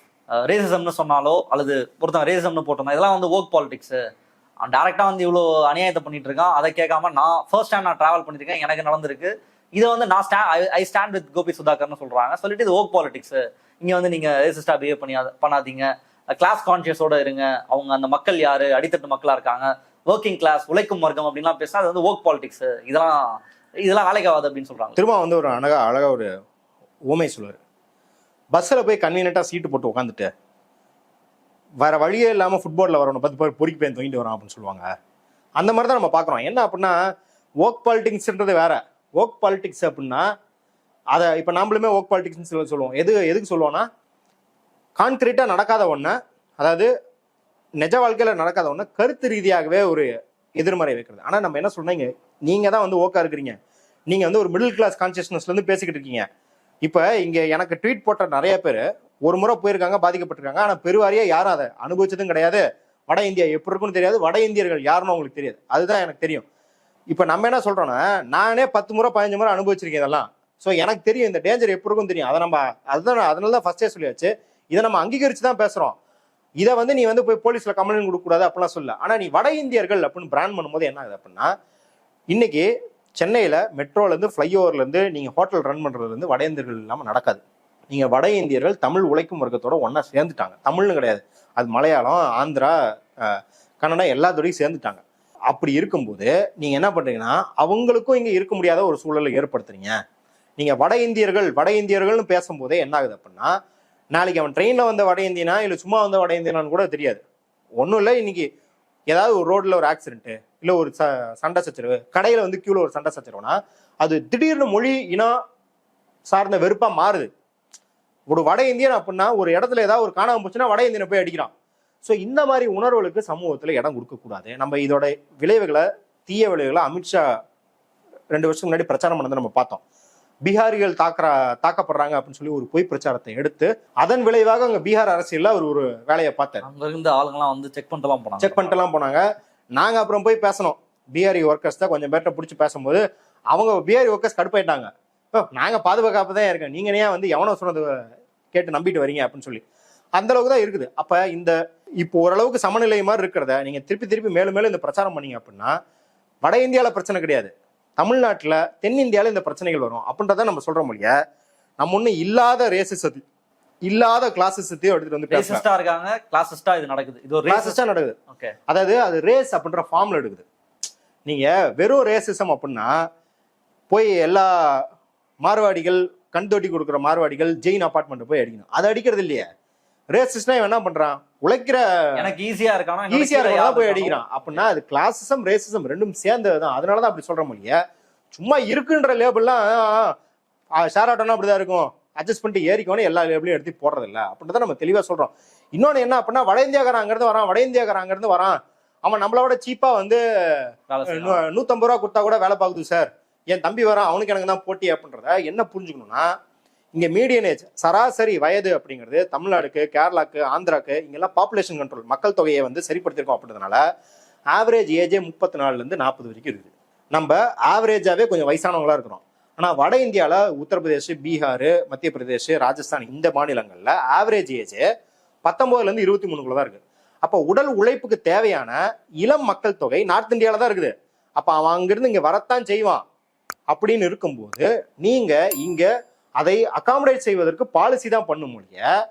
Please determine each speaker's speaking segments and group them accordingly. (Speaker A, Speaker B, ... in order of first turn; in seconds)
Speaker A: 0.4-4.0, 4.6-25.0, 136.6-138.8, 165.3-167.8, 168.3-168.5, 182.2-184.6, 200.9-201.4
Speaker B: 25.0-26.3, 27.1-27.6, 28.5-30.3, 31.8-34.9, 35.6-37.0, 37.6-40.3, 41.1-43.9, 45.0-46.9, 47.8-53.6, 54.1-56.3, 56.8-66.5, 67.1-76.0, 76.6-81.5, 82.3-100.0, 100.6-103.5, 104.1-107.2, 107.8-108.5, 109.1-115.4, 116.3-117.3, 118.3-121.5, 122.0-127.3, 128.3-129.8, 130.4-136.6, 138.4-139.2, 139.8-147.9, 148.5-149.6, 150.2-155.8, 156.4-161.2, 161.8-163.2, 163.9-165.6, 167.5-168.2, 168.7-170.5, 171.2-172.9, 173.9-174.9, 175.4-179.5, 180.1-182.3, 183.1-187.8, 188.3-190.2, 190.8-206.3, 206.9-213.8, 214.5-224.8, 225.4-233.0, 233.7-235.9, 236.4-238.9